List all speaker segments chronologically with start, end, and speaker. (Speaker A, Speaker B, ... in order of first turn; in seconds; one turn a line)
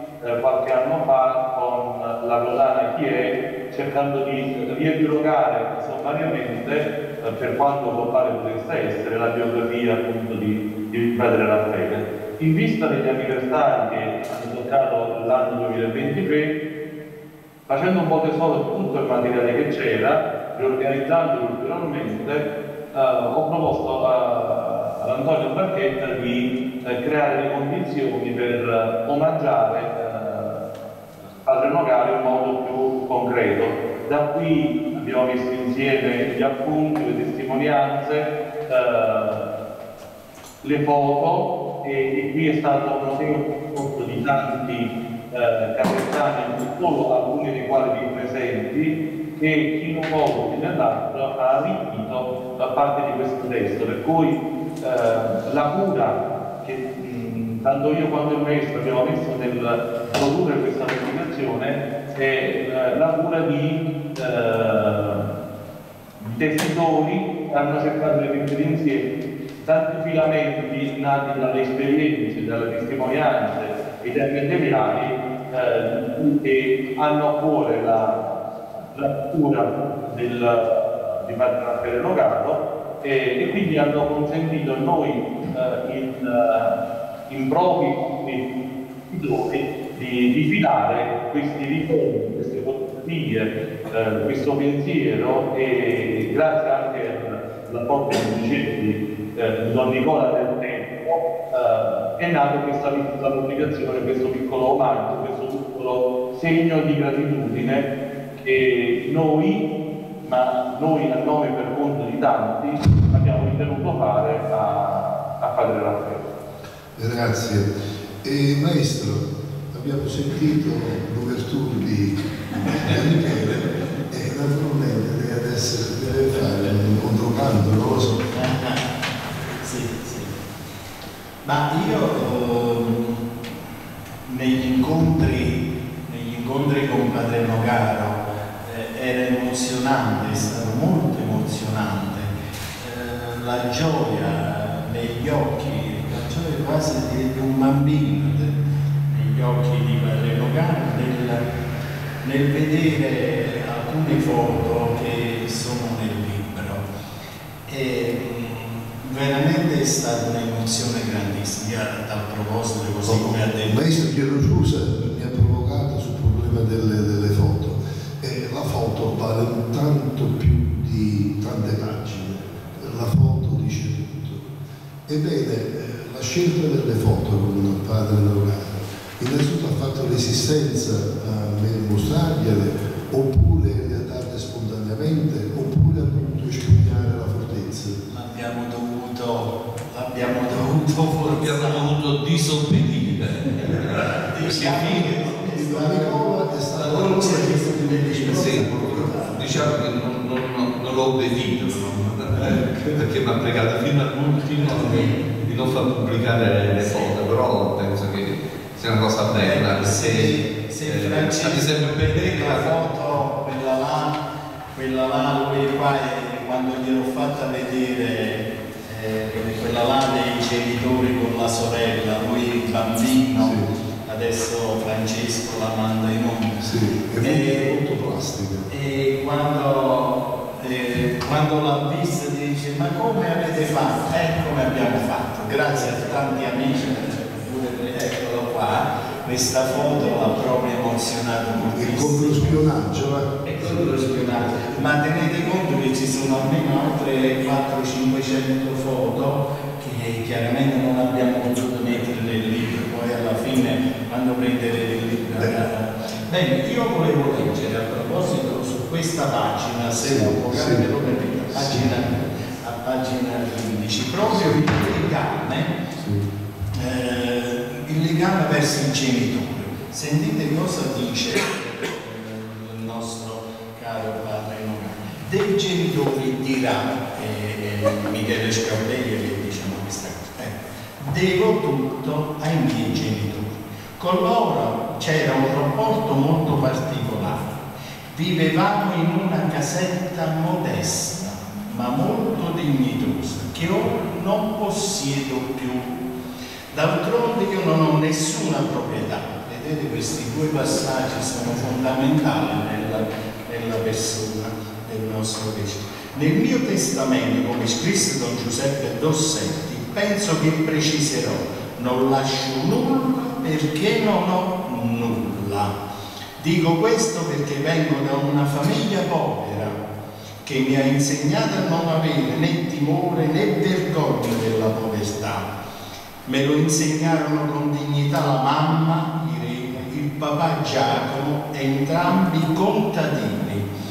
Speaker A: 0.2-16.6
Speaker A: 17.7-30.7
Speaker A: 31.4-39.5
Speaker A: 40.6-65.3
Speaker A: 66.2-69.0
Speaker A: 69.6-88.4
Speaker A: 89.1-109.7
Speaker A: 110.2-116.2
Speaker B: 117.0-117.7
Speaker B: 118.2-128.3
Speaker C: 128.3-128.8
Speaker C: 129.6-130.3
Speaker C: 131.4-133.2
Speaker C: 134.2-148.5
Speaker C: 149.1-151.4
Speaker C: 152.2-156.8
Speaker C: 157.7-163.8
Speaker B: 163.0-174.5
Speaker B: 175.1-188.0
Speaker C: 188.1-191.8
Speaker D: 191.2-195.2
Speaker C: 193.6-199.3
Speaker B: 195.4-199.5
Speaker D: 196.8-212.7
Speaker C: 204.6-205.3
Speaker C: 206.8-207.2
Speaker C: 209.3-214.2
Speaker C: 214.7-226.6
Speaker B: 223.3-223.7
Speaker B: 226.6-228.7
Speaker C: 227.2-227.7
Speaker C: 228.7-242.6
Speaker B: 241.7-244.8
Speaker C: 243.4-265.8
Speaker B: 259.9-260.9
Speaker B: 261.5-262.0
Speaker C: 266.7-287.6
Speaker C: 288.1-296.0
Speaker C: 296.7-315.7
Speaker C: 316.4-319.8
Speaker C: 320.4-325.5
Speaker C: 326.2-333.6